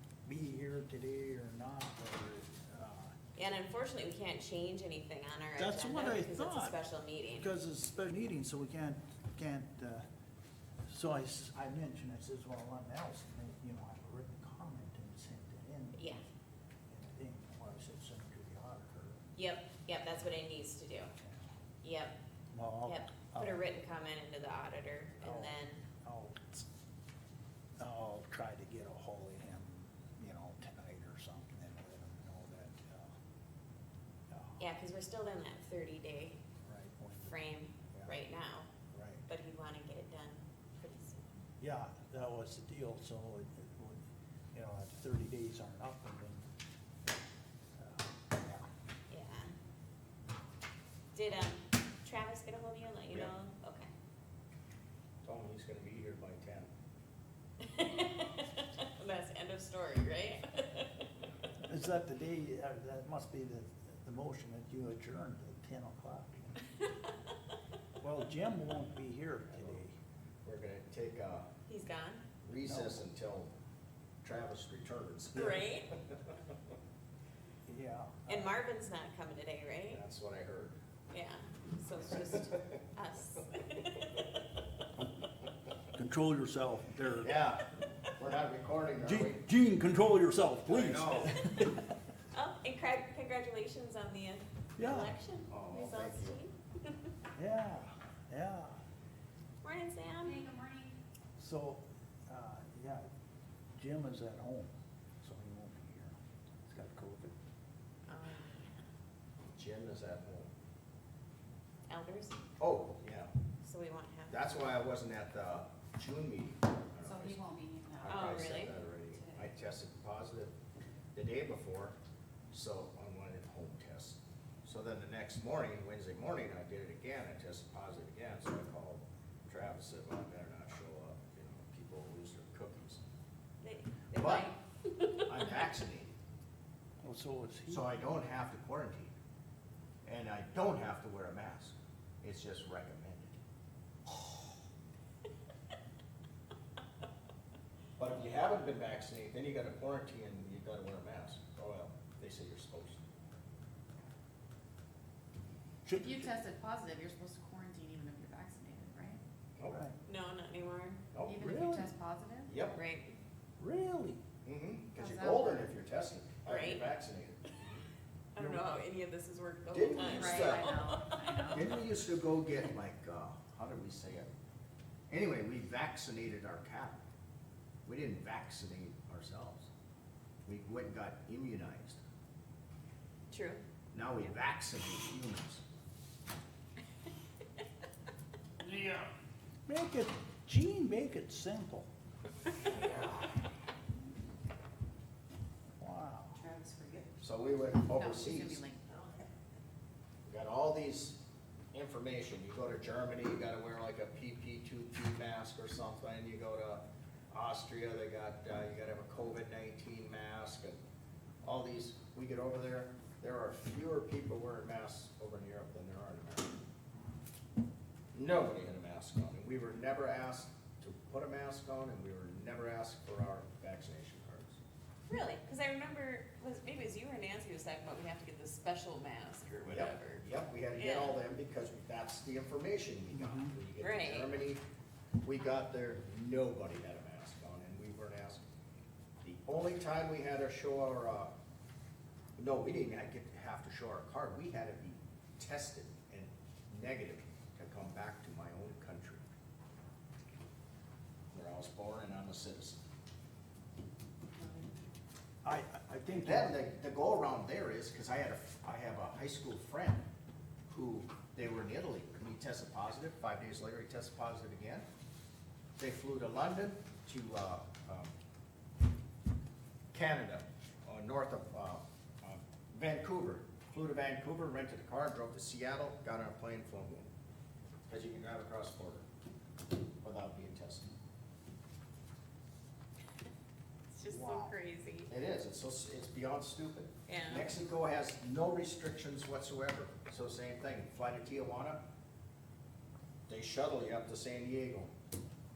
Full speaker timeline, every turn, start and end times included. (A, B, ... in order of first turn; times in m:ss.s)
0:00.2-0:03.2 A
0:03.4-0:07.5 B
0:05.6-0:06.8 A
0:07.4-0:10.0 A
0:10.9-0:16.2 A
0:16.0-0:16.2 B
0:16.9-0:19.3 A
0:19.4-0:21.1 B
0:21.2-0:21.5 A
0:21.8-0:22.2 B
0:22.5-0:23.6 A
0:22.8-0:25.8 B
0:25.2-0:26.6 A
0:27.8-0:33.2 A
0:34.3-0:34.6 A
0:34.6-0:36.4 B
0:36.9-0:37.3 A
0:37.3-0:38.7 B
0:38.9-0:39.2 C
0:39.3-0:41.4 B
0:41.6-0:46.4 A
0:47.8-0:48.7 A
0:49.1-0:49.5 B
0:51.1-0:53.9 B
0:55.2-0:56.7 C
0:57.6-1:01.0 B
1:01.6-1:06.6 A
1:06.8-1:07.1 B
1:08.0-1:10.0 A
1:09.5-1:09.8 C
1:10.4-1:11.5 C
1:11.7-1:12.2 B
1:12.4-1:13.5 C
1:12.6-1:13.0 A
1:14.2-1:16.3 C
1:15.3-1:15.9 B
1:17.7-1:18.5 A
1:18.3-1:20.0 B
1:19.9-1:20.8 C
1:21.1-1:24.6 B
1:22.3-1:22.6 C
1:25.9-1:27.4 A
1:27.2-1:29.4 C
1:29.0-1:31.9 A
1:30.6-1:31.4 C
1:32.3-1:37.1 B
1:34.8-1:35.1 A
1:35.5-1:36.4 C
1:37.4-1:38.8 A
1:39.6-1:40.4 B
1:40.2-1:41.0 D
1:41.4-1:43.0 A
1:43.8-1:47.3 A
1:48.1-1:48.8 B
1:49.5-1:50.5 C
1:51.9-1:52.4 B
1:52.6-1:53.3 C
1:53.6-1:54.4 B
1:54.3-1:57.4 C
1:57.0-1:59.4 D
1:58.0-2:00.5 C
1:58.0-1:58.7 B
2:01.1-2:02.0 C
2:02.5-2:13.0 C
2:13.6-2:15.7 B
2:14.1-2:14.5 C
2:15.2-2:16.1 C
2:17.0-2:17.9 A
2:17.7-2:19.1 C
2:20.0-2:23.4 C
2:28.0-2:33.0 C
2:35.8-2:36.3 A
2:35.9-2:39.2 D
2:39.6-2:40.0 A
2:40.0-2:41.0 B
2:41.1-2:41.5 C
2:41.3-2:42.6 D
2:41.4-2:41.9 A
2:42.4-2:42.8 C
2:42.7-2:43.2 B
2:43.6-2:44.2 A
2:44.4-2:47.4 C
2:44.9-2:45.7 D
2:46.4-2:46.9 B
2:48.3-2:51.5 B
2:48.4-2:48.7 A
2:49.7-2:50.8 C
2:50.0-2:51.8 D
2:51.5-2:54.3 C
2:55.1-2:57.0 C
2:57.8-2:59.7 C
3:00.4-3:02.0 C
3:03.3-3:03.6 B
3:03.9-3:05.6 C
3:08.6-3:09.1 D
3:09.7-3:11.9 A
3:12.7-3:13.0 B
3:15.8-3:16.4 A
3:16.4-3:17.2 D
3:17.2-3:18.6 C
3:17.8-3:19.3 D
3:20.2-3:21.2 C
3:21.7-3:30.8 C
3:31.4-3:36.5 C
3:38.1-3:44.6 C
3:45.1-3:51.2 B
3:49.6-3:54.6 C
3:53.1-3:53.5 A
3:53.8-3:54.3 B
3:55.2-3:58.4 C
3:59.2-4:01.3 C
4:02.4-4:09.2 C
4:11.3-4:12.8 C
4:15.4-4:16.6 A
4:16.1-4:20.0 C
4:20.7-4:24.8 C
4:25.8-4:28.1 C
4:29.9-4:37.1 C
4:37.9-4:39.0 C
4:40.0-4:40.9 C
4:43.9-4:45.1 B
4:44.1-4:44.5 A
4:45.1-4:51.8 C
4:47.1-4:47.5 B
4:53.3-4:54.9 C